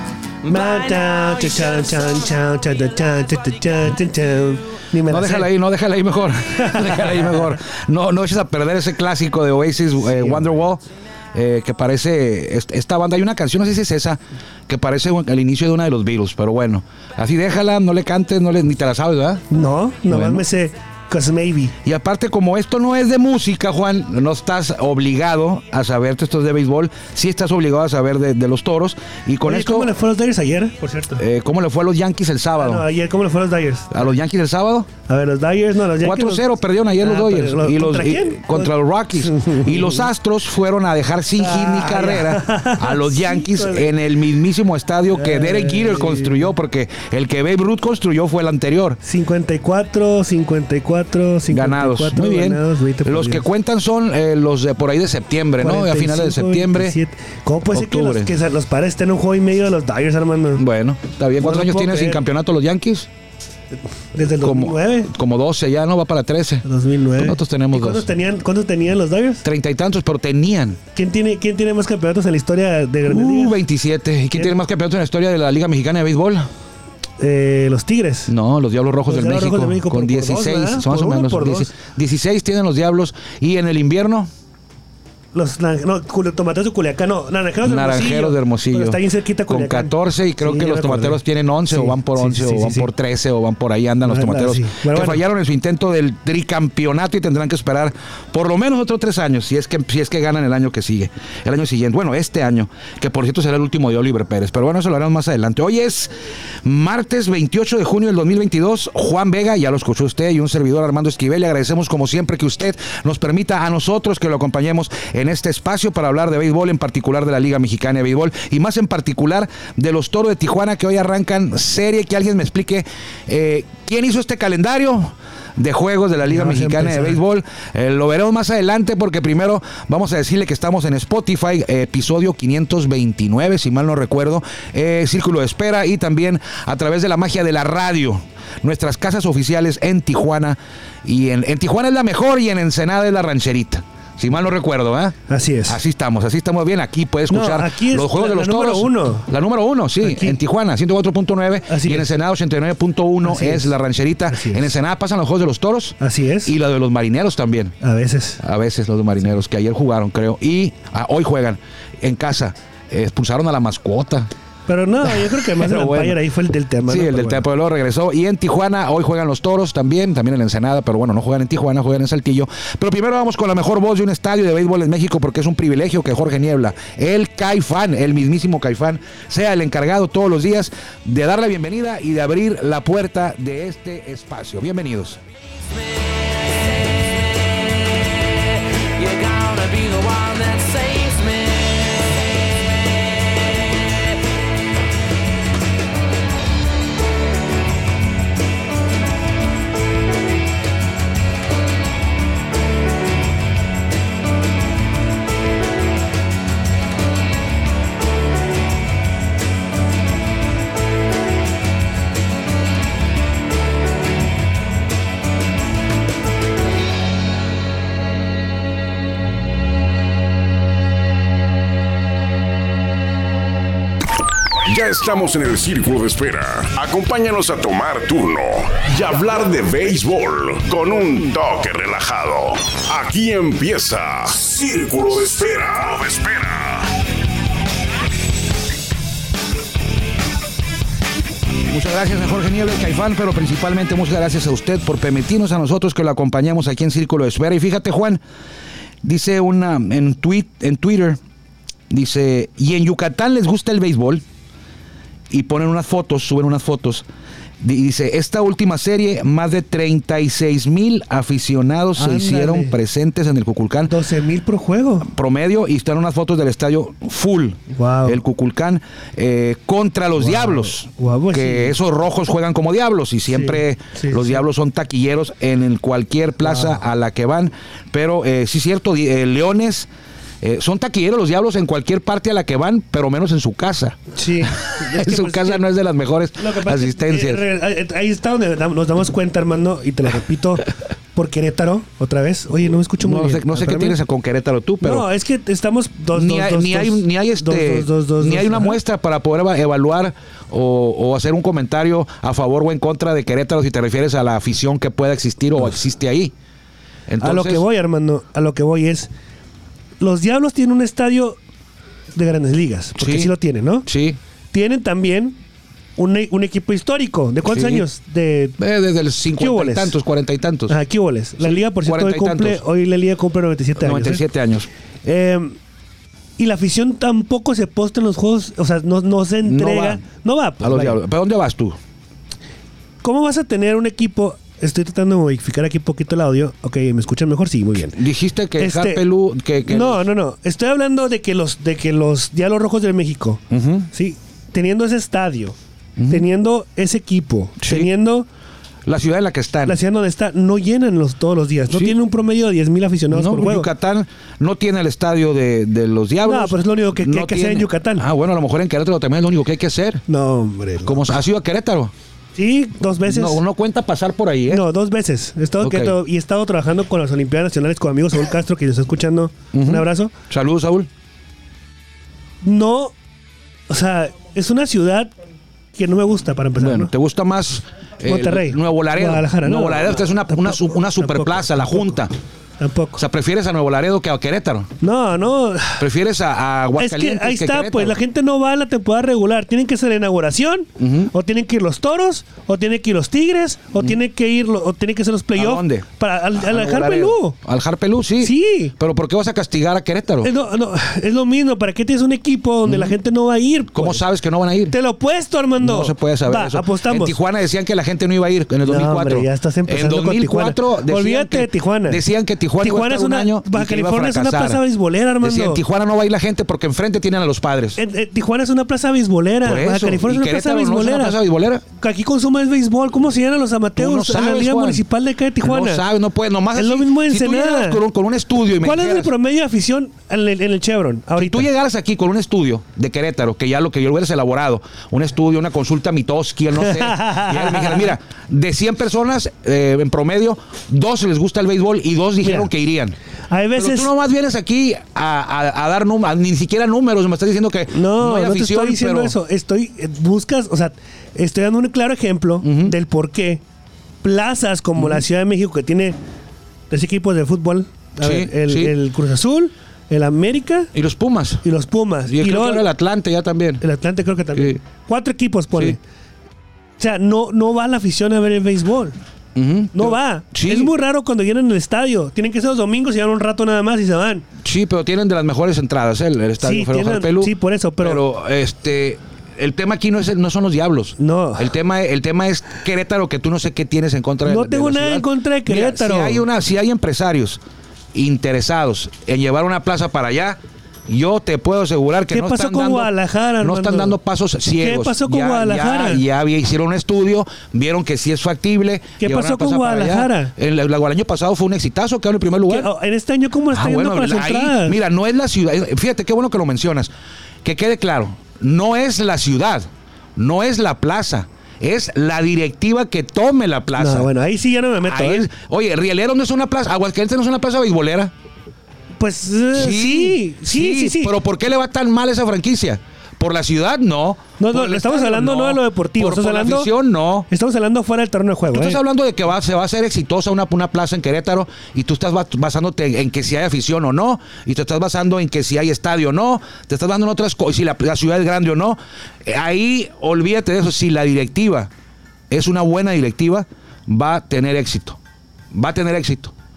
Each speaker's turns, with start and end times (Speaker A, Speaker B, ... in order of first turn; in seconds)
Speaker A: 0.4-2.4, 185.7-194.3
Speaker B: 0.5-5.5, 6.7-7.2, 10.2-10.4, 19.5-21.7, 29.4-31.2, 32.6-34.0, 35.0-36.5, 37.0-40.1, 41.4-43.9, 45.1-46.5, 49.0-53.5, 55.6-60.6, 61.4-62.2, 64.1-65.1, 66.6-69.4, 70.9-73.5, 77.2-78.3, 79.1-81.7, 85.3-92.9, 94.0-95.2, 126.2-127.2, 145.3-145.8, 147.3-149.3, 150.0-150.4, 151.7-152.1, 153.2-153.7, 154.3-154.7, 156.0-156.5, 157.8-158.4, 164.7-167.4, 261.9-262.8, 263.9-265.1, 267.7-268.2, 270.2-271.7, 273.3-274.4, 276.4-276.8, 284.1-285.6, 286.4-294.0, 294.8-298.8, 307.2-309.1, 310.0-311.4, 312.1-313.9, 314.5-315.4, 316.0-318.6, 319.4-320.0, 320.7-324.2, 325.0-325.6, 326.4-331.0, 333.0-338.0, 338.6-339.0, 339.6-345.6, 346.1-348.3, 349.6-353.7, 356.2-358.0, 360.1-361.0, 362.3-363.4, 364.5-370.1, 372.4-372.9, 373.7-375.1, 375.7-376.9, 378.0-382.0, 382.6-383.0, 384.8-385.8, 386.8-397.4, 398.2-398.7, 400.2-404.0, 404.7-407.2, 408.6-412.0, 412.6-415.6, 417.8-421.2, 421.7-425.8, 426.5-427.8, 428.6-431.5, 436.6-437.9, 442.2-442.5, 443.3-443.9, 447.7-453.4, 454.0-455.9, 456.7-460.7, 461.4-462.6, 463.6-465.8, 466.8-468.9, 469.7-474.2, 476.4-478.0, 481.0-481.5, 484.2-486.2, 492.1-494.0, 494.6-496.0, 499.0-500.3, 502.5-504.8, 513.8-515.3, 519.0-521.1, 524.4-526.7, 527.3-528.8
Speaker C: 5.1-10.8, 11.3-19.4, 20.1-20.4, 21.8-29.9, 31.2-32.8, 33.9-34.9, 36.0-49.0, 51.5-57.0, 57.7-58.3, 60.5-63.1, 64.4-66.6, 67.2-68.1, 69.4-70.8, 73.1-76.5, 78.3-84.3, 87.6-106.1, 106.6-157.7, 158.4-164.3, 165.0-166.2, 166.9-185.2, 241.7-248.2, 249.0-251.2, 251.9-254.2, 255.3-257.1, 257.6-263.9, 265.0-279.9, 280.4-287.4, 293.0-295.1, 296.1-306.3, 307.1-307.6, 312.9-313.3, 313.9-314.2, 317.4-317.8, 318.6-320.8, 321.4-322.6, 323.8-324.7, 329.4-330.0, 330.6-331.8, 337.9-340.0, 343.5-343.9, 346.0-346.2, 347.6-347.9, 348.9-349.8, 351.7-352.0, 353.1-360.0, 360.8-361.9, 363.0-364.6, 365.6-365.9, 369.5-370.9, 376.6-382.1, 383.0-384.7, 385.8-388.0, 390.8-391.1, 395.3-400.3, 402.6-402.9, 403.7-404.7, 405.6-414.6, 415.2-417.8, 419.4-421.6, 423.8-424.8, 425.4-429.1, 431.1-442.9, 443.6-449.1, 452.4-452.7, 458.0-458.7, 460.7-461.4, 462.1-463.6, 464.3-464.6, 469.3-470.7, 474.4-487.4, 487.9-502.7, 503.5-506.9, 507.4-514.1, 514.8-518.1, 519.5-527.3, 528.5-541.7, 542.3-545.0, 545.5-546.3
Speaker D: 224.6-236.9